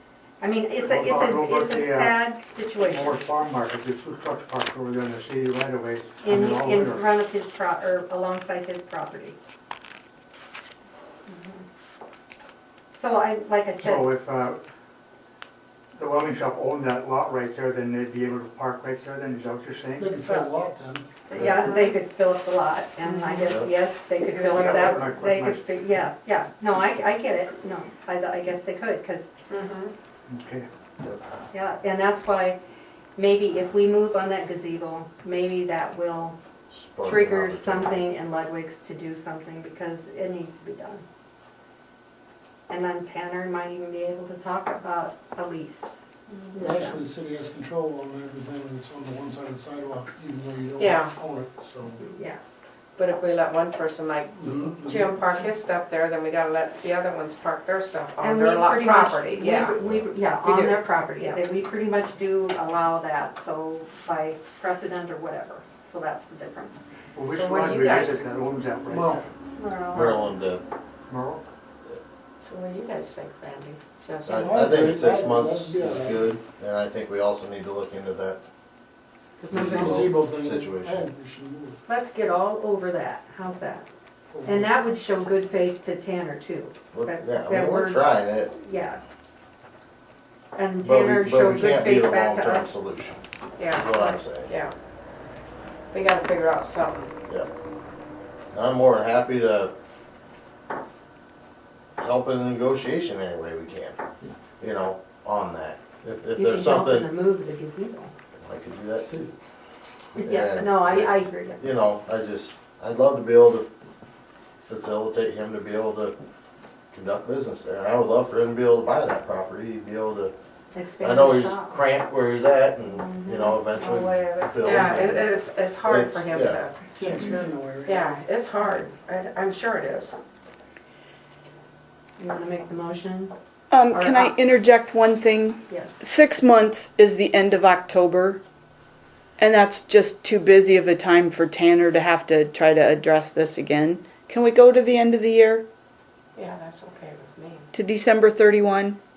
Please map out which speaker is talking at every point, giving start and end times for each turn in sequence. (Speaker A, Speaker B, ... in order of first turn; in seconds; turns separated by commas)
Speaker A: 0.4-3.2, Speaker B: 0.8-2.2, Speaker B: 2.8-7.0, Speaker A: 6.2-9.4, Speaker A: 11.3-11.6, Speaker A: 12.9-14.1, Speaker B: 13.8-14.6, Speaker B: 15.9-20.1, Speaker C: 20.0-21.1, Speaker D: 21.3-21.9, Speaker A: 21.3-29.3, Speaker D: 23.1-23.6, Speaker B: 24.4-25.6, Speaker D: 29.5-29.9, Speaker B: 30.3-30.7, Speaker A: 31.5-32.6, Speaker A: 33.2-36.4, Speaker E: 36.7-38.0, Speaker A: 37.0-41.0, Speaker A: 42.7-47.0, Speaker C: 46.6-52.0, Speaker D: 50.8-51.1, Speaker A: 52.0-52.4, Speaker D: 53.0-59.8, Speaker C: 54.4-55.1, Speaker A: 58.2-66.8, Speaker E: 59.8-60.1, Speaker D: 60.4-61.4, Speaker B: 67.1-69.2, Speaker D: 67.3-68.2, Speaker C: 68.9-69.2, Speaker A: 69.6-70.3, Speaker E: 69.9-70.6, Speaker B: 71.1-71.5, Speaker D: 72.4-74.6, Speaker E: 74.2-78.4, Speaker C: 74.3-76.3, Speaker D: 79.4-79.9, Speaker C: 79.4-81.8, Speaker E: 79.5-81.1, Speaker A: 81.9-83.8, Speaker C: 84.3-84.6, Speaker A: 84.4-89.0, Speaker E: 86.9-88.5, Speaker A: 90.5-92.7, Speaker E: 90.8-94.5, Speaker D: 93.6-94.7, Speaker D: 95.9-97.1, Speaker E: 98.5-99.7, Speaker E: 102.0-104.0, Speaker E: 104.6-107.1, Speaker A: 106.3-108.1, Speaker E: 108.4-109.3, Speaker E: 110.1-113.7, Speaker A: 110.2-111.6, Speaker E: 114.6-116.2, Speaker E: 116.9-120.3, Speaker A: 120.7-121.8, Speaker E: 121.0-126.6, Speaker D: 123.4-126.7, Speaker C: 126.9-128.2, Speaker D: 127.8-130.2, Speaker A: 132.2-133.3, Speaker F: 133.7-138.4, Speaker A: 133.9-134.3, Speaker A: 135.7-136.0, Speaker F: 139.4-145.6, Speaker D: 146.3-147.7, Speaker F: 147.7-149.0